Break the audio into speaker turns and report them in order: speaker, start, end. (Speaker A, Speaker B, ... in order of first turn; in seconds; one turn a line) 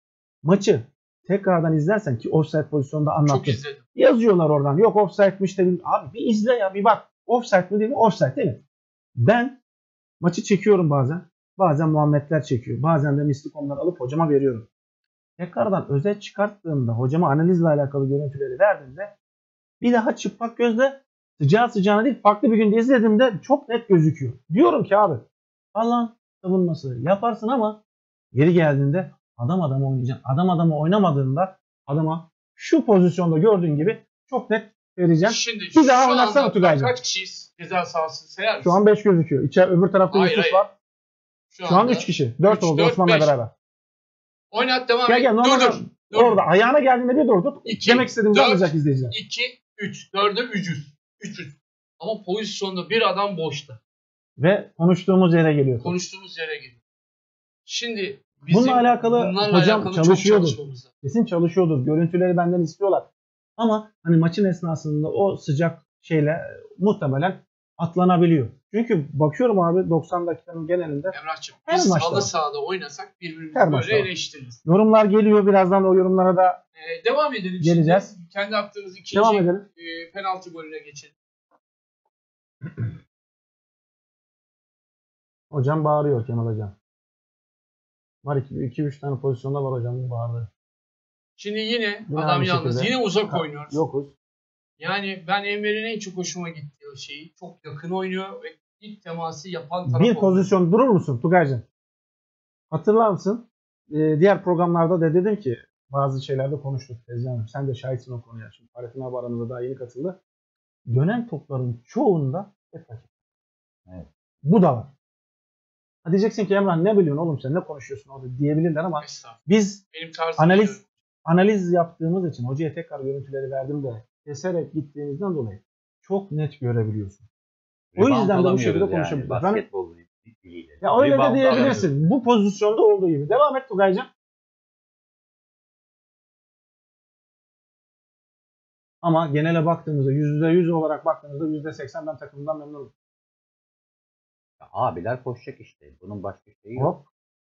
Speaker A: 0.4-8.6
Speaker B: 3.3-3.8
Speaker A: 9.2-9.6
Speaker A: 10.2-14.7
Speaker A: 15.4-19.1
Speaker A: 19.8-27.8
Speaker A: 28.3-36.9
Speaker B: 35.2-38.8
Speaker A: 38.6-40.7
Speaker B: 40.1-40.7
Speaker B: 41.5-43.3
Speaker A: 41.6-43.5
Speaker B: 44.5-46.4
Speaker A: 45.1-49.1
Speaker B: 47.7-53.8
Speaker A: 54.4-55.9
Speaker B: 55.8-56.8
Speaker B: 57.6-60.9
Speaker A: 58.5-71.2
Speaker B: 71.1-74.6
Speaker A: 71.7-72.3
Speaker A: 73.5-74.1
Speaker A: 74.7-76.6
Speaker B: 76.8-81.2
Speaker A: 77.6-78.1
Speaker A: 79.1-79.7
Speaker A: 85.5-86.8
Speaker A: 88.2-90.5
Speaker B: 91.4-93.9
Speaker A: 92.1-94.1
Speaker B: 94.8-100.5
Speaker A: 99.9-101.7
Speaker A: 102.7-110.2
Speaker A: 110.9-113.1
Speaker A: 114.5-114.9
Speaker A: 116.0-119.8
Speaker B: 119.0-119.4
Speaker B: 119.9-120.9
Speaker A: 120.4-127.2
Speaker C: 127.9-131.9
Speaker A: 128.0-129.7
Speaker A: 130.8-134.1
Speaker B: 131.5-131.9
Speaker A: 139.0-142.9
Speaker C: 144.6-146.9
Speaker A: 146.8-147.1